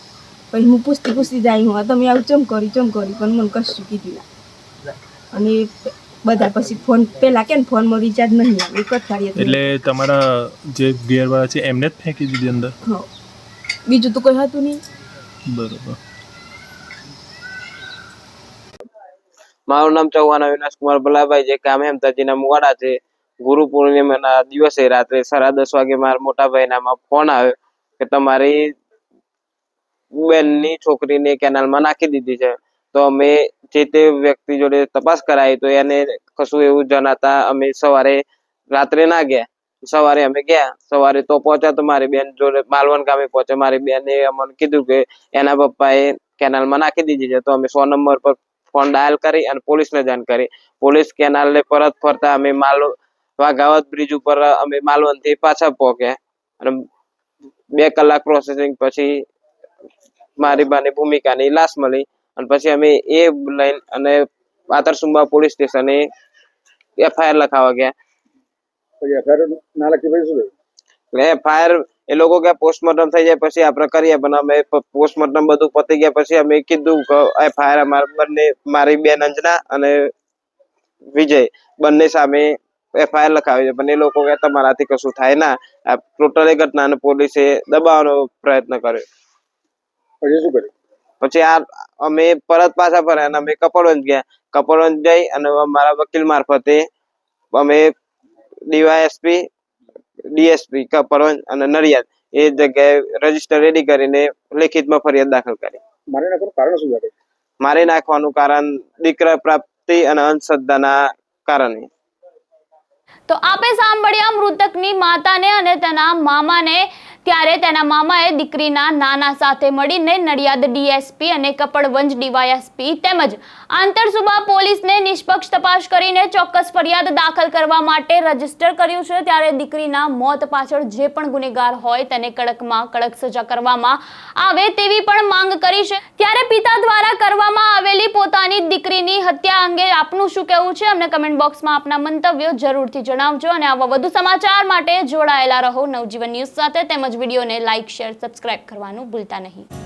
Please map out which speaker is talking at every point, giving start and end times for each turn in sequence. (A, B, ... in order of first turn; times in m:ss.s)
0:00.5-0:04.2 A
0:05.3-0:09.7 A
0:09.4-0:12.7 B
0:13.9-0:14.8 A
0:15.5-0:16.0 B
0:19.7-0:28.7 C
0:30.2-0:56.8 C
0:57.7-0:59.2 C
1:00.4-1:06.0 C
1:07.0-1:07.9 C
1:09.0-1:10.5 D
1:11.1-1:20.1 C
1:21.1-1:29.0 C
1:30.2-1:30.7 D
1:31.2-1:36.8 C
1:37.5-1:37.9 C
1:38.7-1:39.4 C
1:40.3-1:45.8 C
1:46.1-1:47.1 D
1:47.6-1:51.9 C
1:53.3-2:29.6 E